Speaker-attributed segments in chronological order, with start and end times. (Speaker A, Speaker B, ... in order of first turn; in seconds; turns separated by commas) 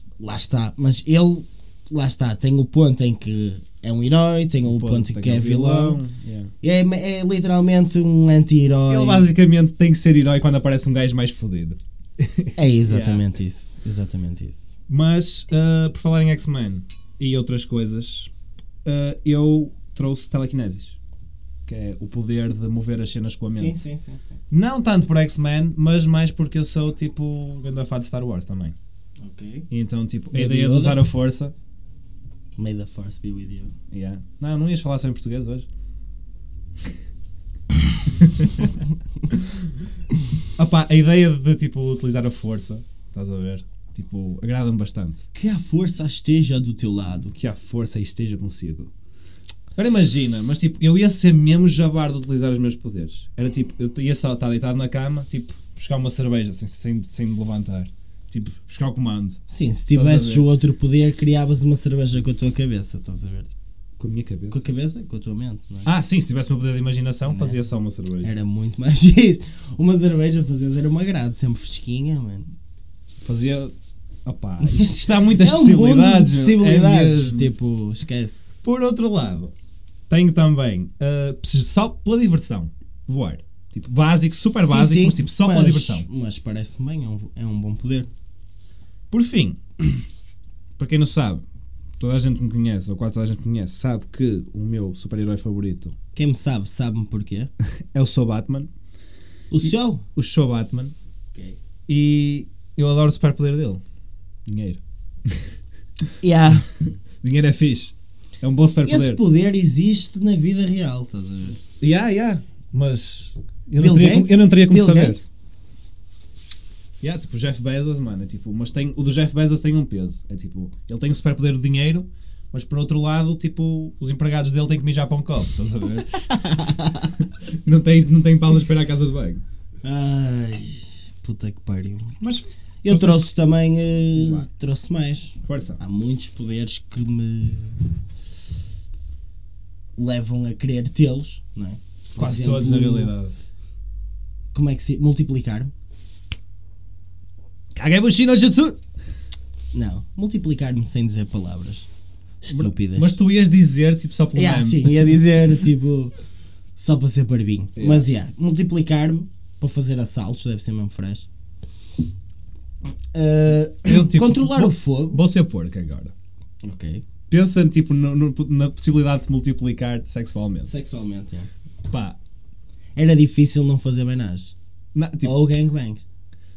Speaker A: 0.2-6.0, Speaker B: 4.6-6.5, Speaker A: 6.6-9.3, Speaker B: 8.9-13.3, Speaker A: 12.6-14.7, Speaker B: 14.9-18.3, Speaker B: 18.8-21.0, Speaker B: 21.7-23.8, Speaker A: 23.5-24.4, Speaker B: 24.5-28.8, Speaker A: 29.2-29.7, Speaker B: 29.7-31.5, Speaker A: 30.3-31.1, Speaker A: 32.6-33.7, Speaker B: 33.9-35.7, Speaker B: 38.2-38.7, Speaker B: 39.3-39.7, Speaker B: 40.6-45.2, Speaker A: 45.4-47.4, Speaker B: 47.3-48.9, Speaker B: 49.8-59.4, Speaker A: 59.5-63.5, Speaker B: 59.9-60.5, Speaker B: 64.0-64.6, Speaker A: 64.5-65.9, Speaker B: 65.8-68.3, Speaker A: 67.3-67.6, Speaker A: 68.2-72.5, Speaker B: 73.2-73.7, Speaker B: 74.2-77.5, Speaker A: 74.6-78.5, Speaker B: 78.6-79.5, Speaker B: 80.1-86.1, Speaker A: 84.6-88.1, Speaker B: 89.1-89.8, Speaker B: 90.8-91.4, Speaker B: 92.0-96.0, Speaker A: 96.2-97.5, Speaker B: 97.9-98.7, Speaker A: 99.5-100.0, Speaker B: 99.6-100.9, Speaker B: 101.9-103.8, Speaker B: 104.5-105.5, Speaker A: 106.2-106.7, Speaker B: 107.2-109.2, Speaker A: 108.8-111.6, Speaker B: 111.8-115.2, Speaker A: 113.8-115.2, Speaker B: 117.0-126.2, Speaker A: 126.2-127.2, Speaker B: 127.2-129.4, Speaker A: 129.8-132.2, Speaker B: 132.2-133.3, Speaker A: 132.8-137.8, Speaker B: 134.2-134.5, Speaker B: 135.4-135.8, Speaker A: 140.0-143.1, Speaker B: 142.2-143.3, Speaker A: 144.5-145.7, Speaker B: 147.8-148.8, Speaker A: 149.7-151.9, Speaker A: 152.4-153.2, Speaker B: 152.5-155.1, Speaker A: 154.3-156.2, Speaker A: 156.8-161.3, Speaker B: 157.8-158.1, Speaker A: 163.1-165.2, Speaker B: 163.8-166.1, Speaker A: 166.6-167.0, Speaker B: 167.3-170.7, Speaker A: 170.6-171.5, Speaker B: 171.9-172.2, Speaker A: 173.0-174.6, Speaker B: 174.9-175.4, Speaker A: 175.2-176.0